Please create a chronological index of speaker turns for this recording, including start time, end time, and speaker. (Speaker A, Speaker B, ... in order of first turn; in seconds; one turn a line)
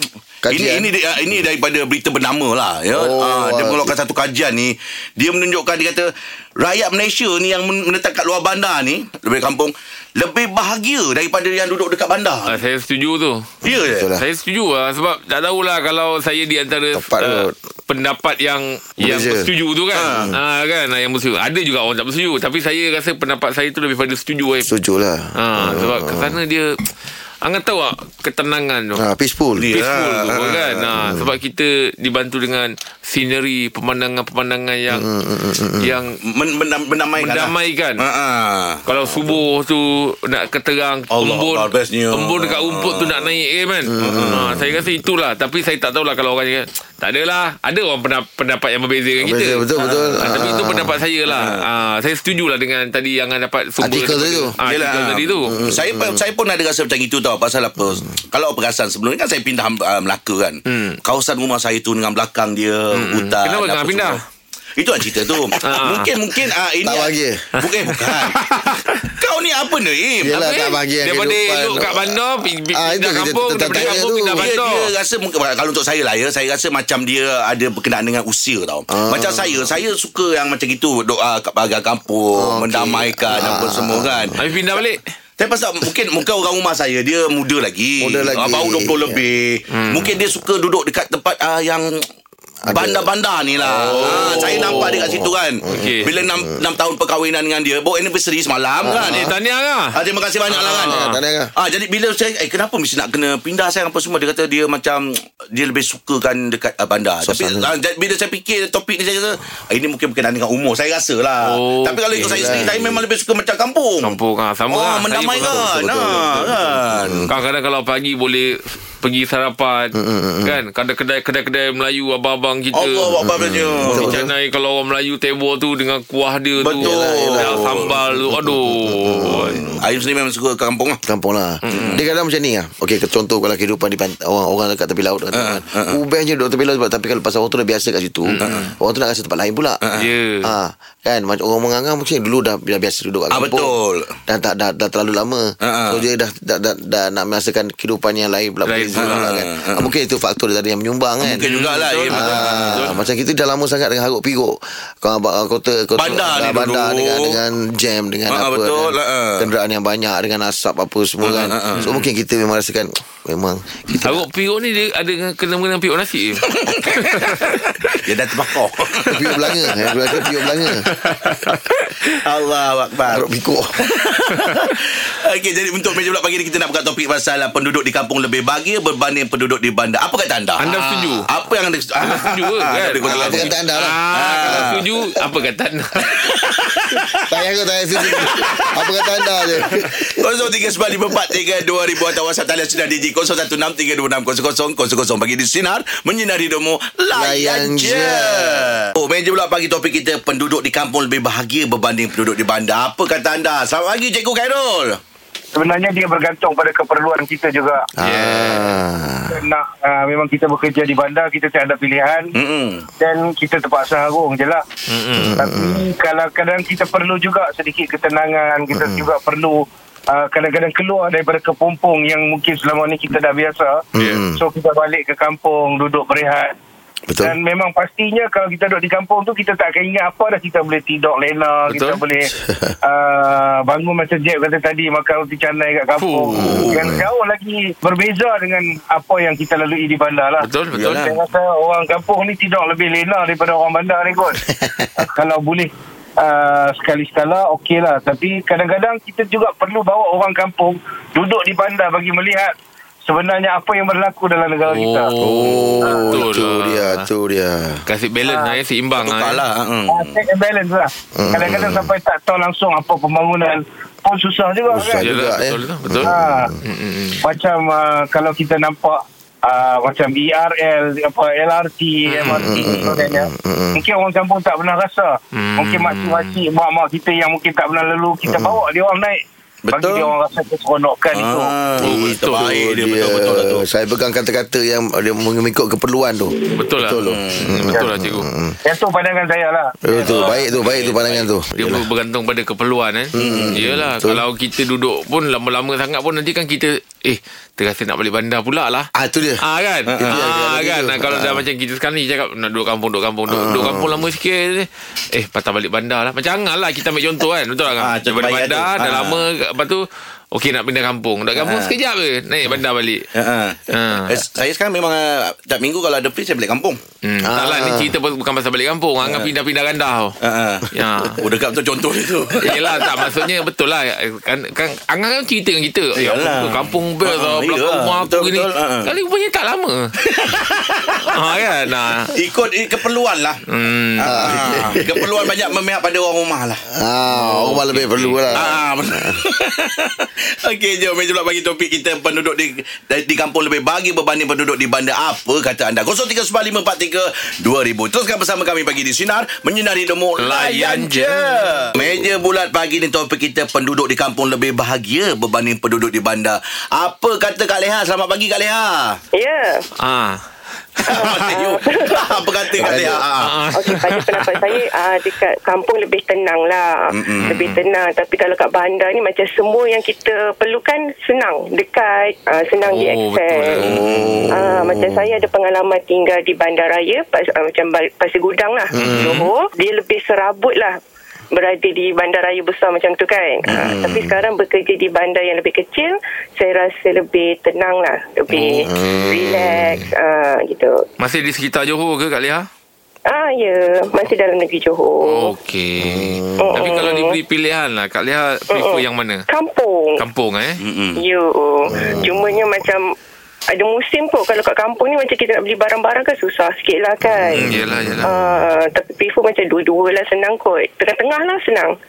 Speaker A: 0.4-0.9
Speaker B: 0.5-12.6
Speaker A: 2.9-3.9
Speaker C: 12.5-13.5
Speaker B: 13.6-14.1
Speaker A: 13.8-14.2
Speaker C: 14.2-24.7
Speaker A: 16.9-17.5
Speaker A: 19.0-19.5
Speaker B: 19.9-20.3
Speaker A: 24.6-26.4
Speaker C: 25.4-26.6
Speaker C: 27.4-29.0
Speaker A: 28.9-29.7
Speaker B: 29.6-30.8
Speaker C: 29.7-35.1
Speaker A: 30.9-31.3
Speaker A: 34.9-35.9
Speaker C: 35.8-36.1
Speaker B: 36.3-38.8
Speaker C: 37.2-38.0
Speaker C: 38.9-49.6
Speaker B: 41.1-43.2
Speaker A: 43.9-44.8
Speaker B: 44.0-44.5
Speaker A: 49.2-51.0
Speaker B: 49.8-50.3
Speaker C: 50.2-55.5
Speaker B: 51.3-51.6
Speaker A: 53.8-54.5
Speaker B: 54.6-64.2
Speaker A: 55.5-56.2
Speaker C: 60.6-61.0
Speaker C: 62.9-64.2
Speaker B: 64.8-70.4
Speaker C: 65.6-66.1
Speaker A: 66.8-67.5
Speaker C: 68.3-68.8
Speaker A: 70.2-72.2
Speaker C: 70.3-74.9
Speaker A: 72.7-74.5
Speaker B: 73.7-84.4
Speaker A: 78.9-79.7
Speaker A: 82.4-84.4
Speaker C: 84.4-85.0
Speaker B: 85.4-91.9
Speaker A: 88.0-89.2
Speaker C: 89.7-90.0
Speaker A: 92.6-93.1
Speaker B: 92.7-99.3
Speaker A: 93.6-96.6
Speaker C: 93.8-95.1
Speaker C: 95.7-96.1
Speaker A: 98.8-99.3
Speaker C: 99.0-99.9
Speaker B: 99.9-101.0
Speaker C: 100.5-101.2
Speaker A: 100.7-101.5
Speaker B: 101.5-114.2
Speaker A: 107.2-107.7
Speaker C: 111.4-112.7
Speaker A: 112.1-113.0
Speaker C: 114.0-115.7
Speaker B: 114.7-117.3
Speaker A: 115.4-117.3
Speaker C: 117.3-123.1
Speaker A: 119.9-120.6
Speaker B: 122.7-124.2
Speaker A: 123.1-124.3
Speaker C: 123.8-129.7
Speaker B: 126.6-127.9
Speaker A: 126.8-129.8
Speaker B: 129.8-131.0
Speaker A: 131.1-139.8
Speaker C: 131.6-132.0
Speaker B: 131.7-132.0
Speaker B: 135.3-136.0
Speaker C: 138.3-138.7
Speaker B: 139.8-140.1
Speaker C: 140.0-140.5
Speaker A: 140.4-143.7
Speaker B: 143.3-144.1
Speaker A: 144.3-151.5
Speaker B: 145.6-146.0
Speaker C: 148.7-149.3
Speaker B: 149.0-149.9
Speaker B: 151.2-152.9
Speaker C: 151.4-153.0
Speaker A: 152.1-164.2
Speaker B: 155.9-157.4
Speaker B: 158.3-159.5
Speaker B: 161.2-162.0
Speaker C: 161.7-162.0
Speaker C: 164.0-168.0
Speaker B: 166.5-170.3
Speaker A: 169.1-170.8
Speaker C: 170.9-171.9
Speaker B: 171.0-171.5
Speaker B: 172.1-173.2
Speaker A: 173.1-173.7
Speaker B: 173.8-183.5
Speaker C: 180.6-181.2
Speaker C: 182.0-185.8
Speaker A: 183.0-184.7
Speaker B: 184.1-184.8
Speaker B: 186.1-187.2
Speaker A: 187.2-191.4
Speaker B: 188.0-205.0
Speaker A: 197.1-198.7
Speaker D: 205.5-207.8
Speaker C: 208.0-208.7
Speaker A: 208.0-209.4
Speaker D: 209.3-212.3
Speaker B: 212.3-212.8
Speaker D: 213.0-214.6
Speaker C: 214.9-215.4
Speaker A: 215.2-215.8
Speaker D: 215.4-223.8
Speaker A: 218.7-219.0
Speaker A: 223.9-224.4
Speaker D: 224.3-226.5
Speaker D: 227.2-232.3
Speaker C: 231.7-232.0
Speaker A: 232.4-232.7
Speaker D: 232.8-244.4
Speaker C: 236.0-236.3
Speaker B: 236.3-236.8
Speaker A: 236.3-237.0
Speaker C: 240.4-241.1
Speaker B: 240.7-241.1
Speaker A: 244.5-244.9
Speaker D: 245.0-252.5
Speaker D: 253.1-255.1
Speaker C: 254.7-257.1
Speaker A: 255.2-257.8
Speaker D: 255.8-256.1
Speaker C: 257.9-259.4
Speaker D: 258.2-258.6
Speaker B: 259.0-260.2
Speaker D: 259.9-265.0
Speaker A: 261.2-261.9
Speaker A: 264.7-266.5
Speaker C: 265.0-267.2
Speaker D: 266.1-266.5
Speaker D: 267.2-281.5
Speaker C: 272.1-272.4
Speaker A: 272.3-273.8
Speaker B: 272.5-273.0
Speaker C: 275.3-276.4
Speaker A: 278.2-278.6
Speaker B: 279.6-280.1
Speaker B: 281.1-283.6
Speaker C: 281.8-282.4
Speaker A: 282.3-288.6
Speaker C: 286.6-288.2
Speaker B: 287.0-287.5
Speaker D: 288.6-290.0
Speaker A: 289.8-291.9
Speaker C: 290.0-298.9
Speaker B: 290.1-290.9
Speaker A: 293.1-294.2
Speaker B: 293.1-293.6
Speaker A: 298.9-299.4
Speaker C: 299.4-313.1
Speaker B: 299.9-300.2
Speaker A: 300.1-301.4
Speaker A: 303.3-304.0
Speaker B: 307.8-309.2
Speaker B: 311.3-311.8
Speaker B: 313.1-316.8
Speaker C: 313.7-314.1
Speaker C: 317.0-320.1
Speaker A: 317.2-317.9
Speaker B: 319.0-319.3
Speaker B: 320.2-320.7
Speaker C: 320.7-321.2
Speaker B: 321.2-322.8
Speaker C: 322.4-329.9
Speaker B: 325.9-328.9
Speaker B: 330.0-331.3
Speaker C: 331.1-332.1
Speaker B: 332.1-333.4
Speaker C: 333.5-334.7
Speaker B: 334.0-336.6
Speaker A: 334.0-335.3
Speaker A: 336.7-339.2
Speaker C: 337.1-338.6
Speaker B: 338.3-359.0
Speaker C: 350.2-351.7
Speaker E: 359.1-359.6
Speaker C: 359.8-360.2
Speaker B: 360.9-363.4
Speaker E: 360.9-362.7
Speaker A: 362.6-363.0
Speaker C: 363.2-364.4
Speaker E: 363.6-373.6
Speaker B: 366.9-367.3
Speaker C: 367.2-367.6
Speaker C: 372.6-374.4
Speaker B: 373.6-374.1
Speaker A: 373.8-375.2
Speaker E: 374.3-380.7
Speaker A: 378.7-379.2
Speaker C: 378.7-379.3
Speaker E: 381.3-390.8
Speaker A: 383.5-384.2
Speaker C: 388.3-389.1
Speaker A: 388.6-389.8
Speaker C: 391.0-392.5
Speaker E: 393.1-395.3
Speaker C: 395.1-399.2
Speaker A: 395.8-396.8
Speaker E: 396.4-397.1
Speaker E: 398.5-400.0
Speaker C: 400.0-400.6
Speaker B: 400.6-401.0
Speaker E: 401.0-402.9
Speaker A: 401.7-402.4
Speaker E: 403.5-407.5
Speaker A: 407.0-408.4
Speaker C: 407.3-408.2
Speaker E: 408.1-411.7